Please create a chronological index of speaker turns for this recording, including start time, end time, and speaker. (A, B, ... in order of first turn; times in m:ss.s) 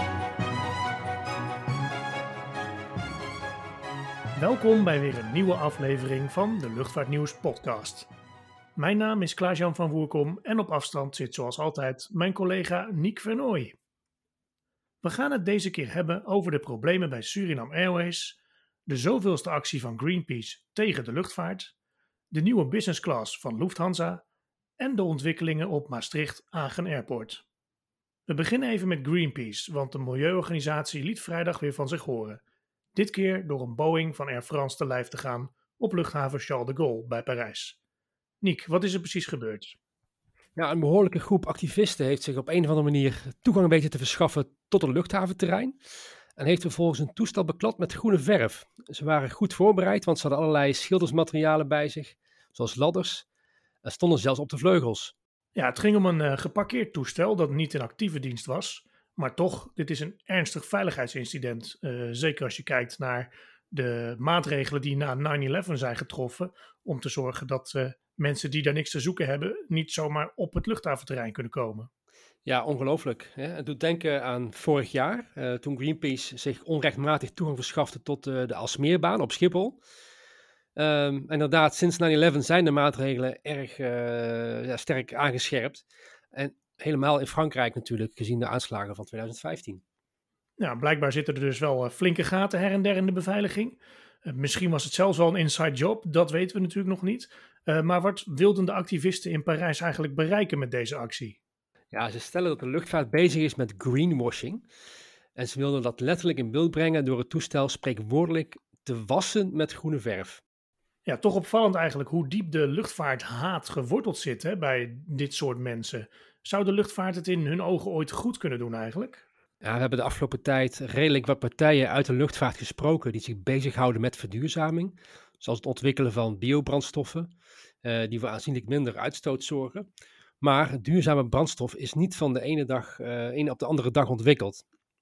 0:04.4-0:08.1 A
0:08.8-0:13.7 A
0:15.0-0:21.7 A
0:22.3-0:24.2 A
0:24.8-0:27.4 A
0:28.3-0:32.4 A
0:32.9-0:37.8 A
0:38.4-0:39.8 A
0:40.6-0:45.7 B
0:46.4-0:53.2 B
0:53.8-0:55.1 B
0:55.5-1:11.9 A
1:12.4-1:19.8 B
1:20.8-1:29.8 B
1:30.6-1:41.4 A
1:41.9-1:44.6 B
1:45.3-1:50.4 B
1:51.0-1:59.2 A
1:59.6-2:07.3 B
2:07.8-2:09.9 B
2:10.4-2:14.6 B